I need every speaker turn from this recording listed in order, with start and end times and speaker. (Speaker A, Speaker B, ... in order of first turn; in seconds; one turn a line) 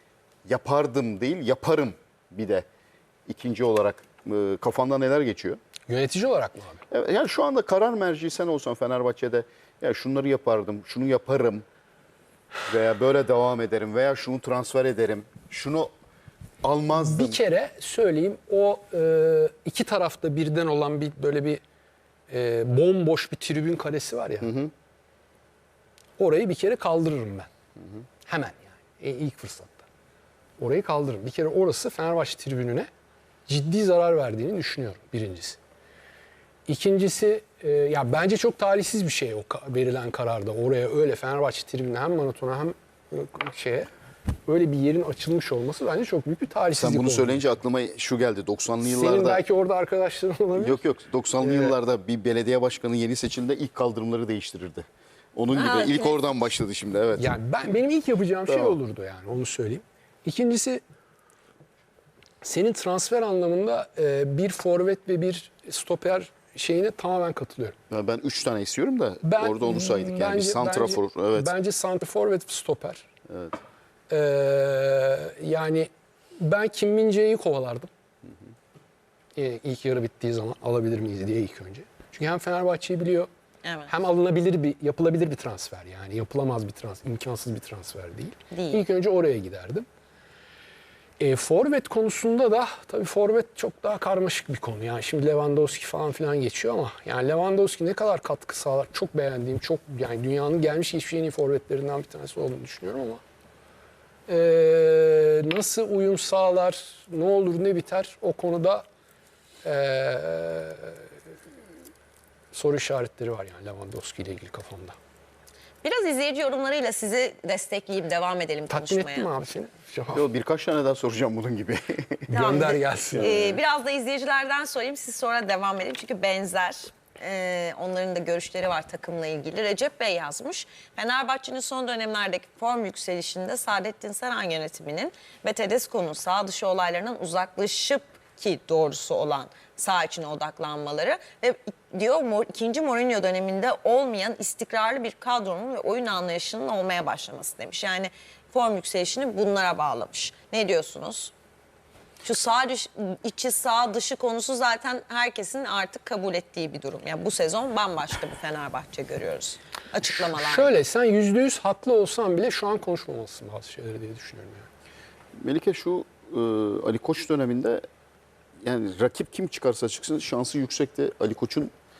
Speaker A: 0.5-2.6
Speaker A: 3.3-5.6
Speaker B: 5.9-6.8
Speaker A: 6.9-11.7
Speaker A: 12.7-15.9
Speaker A: 16.6-17.4
Speaker B: 16.9-21.6
Speaker B: 22.3-24.5
Speaker A: 24.4-24.7
Speaker B: 26.2-27.5
Speaker B: 28.2-29.9
Speaker B: 30.6-32.9
Speaker B: 33.5-35.6
Speaker B: 36.7-43.9
Speaker B: 44.5-47.4
Speaker A: 46.8-49.4
Speaker B: 48.8-50.8
Speaker A: 50.5-57.3
Speaker B: 51.4-51.8
Speaker C: 55.5-56.1
Speaker B: 57.1-60.8
Speaker A: 58.5-58.8
Speaker B: 62.4-67.8
Speaker A: 67.9-71.5
Speaker B: 69.2-73.0
Speaker A: 73.3-73.6
Speaker B: 74.1-77.9
Speaker B: 79.3-83.3
Speaker C: 83.6-83.9
Speaker B: 83.9-89.8
Speaker C: 88.5-88.8
Speaker B: 91.2-103.2
Speaker B: 104.3-108.8
Speaker B: 109.6-111.0
Speaker B: 112.5-115.0
Speaker C: 115.8-119.3
Speaker B: 118.7-120.2
Speaker A: 120.1-122.3
Speaker C: 122.3-151.3
Speaker B: 122.3-123.6
Speaker C: 152.2-160.7
Speaker B: 160.3-164.7
Speaker A: 165.4-167.8
Speaker A: 168.6-171.7